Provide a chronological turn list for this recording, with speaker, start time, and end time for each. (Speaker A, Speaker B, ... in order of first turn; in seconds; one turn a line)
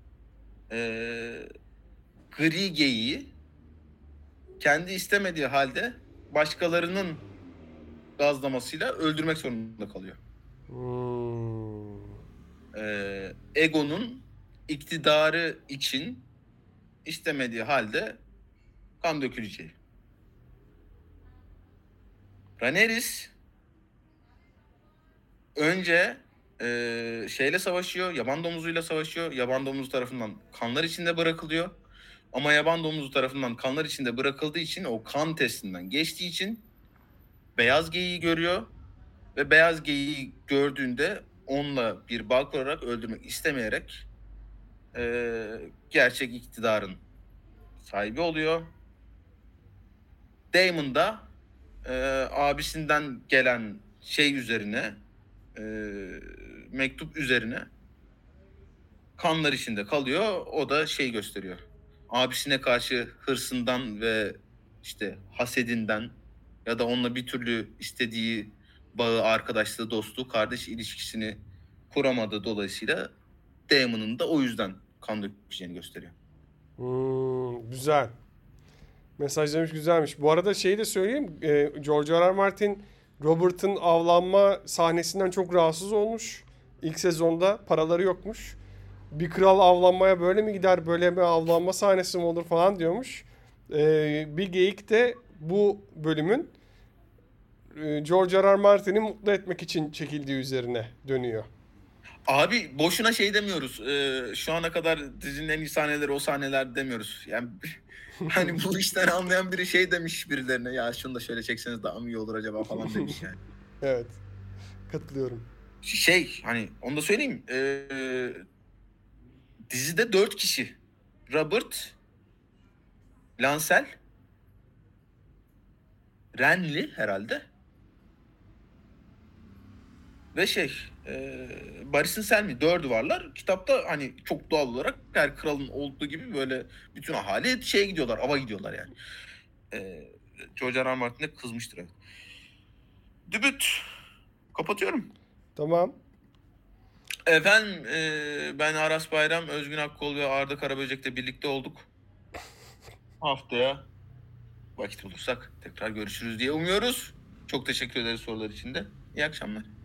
Speaker A: 0.7-1.5
Speaker A: 2.3-3.3
Speaker A: 4.6-7.2
Speaker A: 8.2-10.2
Speaker B: 10.7-12.2
Speaker A: 12.7-16.2
Speaker A: 17.0-18.2
Speaker A: 19.0-19.8
Speaker A: 22.6-23.3
Speaker A: 25.6-31.7
Speaker A: 32.3-36.6
Speaker A: 37.5-38.7
Speaker A: 39.3-44.1
Speaker A: 44.9-47.0
Speaker A: 47.8-48.7
Speaker A: 50.5-51.3
Speaker A: 51.8-55.0
Speaker A: 55.5-57.7
Speaker A: 59.2-73.1
Speaker A: 73.7-76.1
Speaker B: 76.8-78.1
Speaker B: 79.2-88.6
Speaker B: 89.1-96.5
Speaker B: 97.7-101.5
Speaker A: 102.3-113.4
Speaker B: 113.8-114.2
Speaker B: 114.9-115.5
Speaker A: 115.8-118.4
Speaker A: 119.7-120.8
Speaker A: 121.3-122.0
Speaker A: 123.4-123.9
Speaker A: 126.4-127.5
Speaker A: 130.3-138.9
Speaker A: 139.7-141.9
Speaker A: 143.3-143.8
Speaker A: 144.5-145.1
Speaker B: 145.6-146.0
Speaker A: 147.3-151.9
Speaker A: 153.2-153.8
Speaker A: 154.8-159.7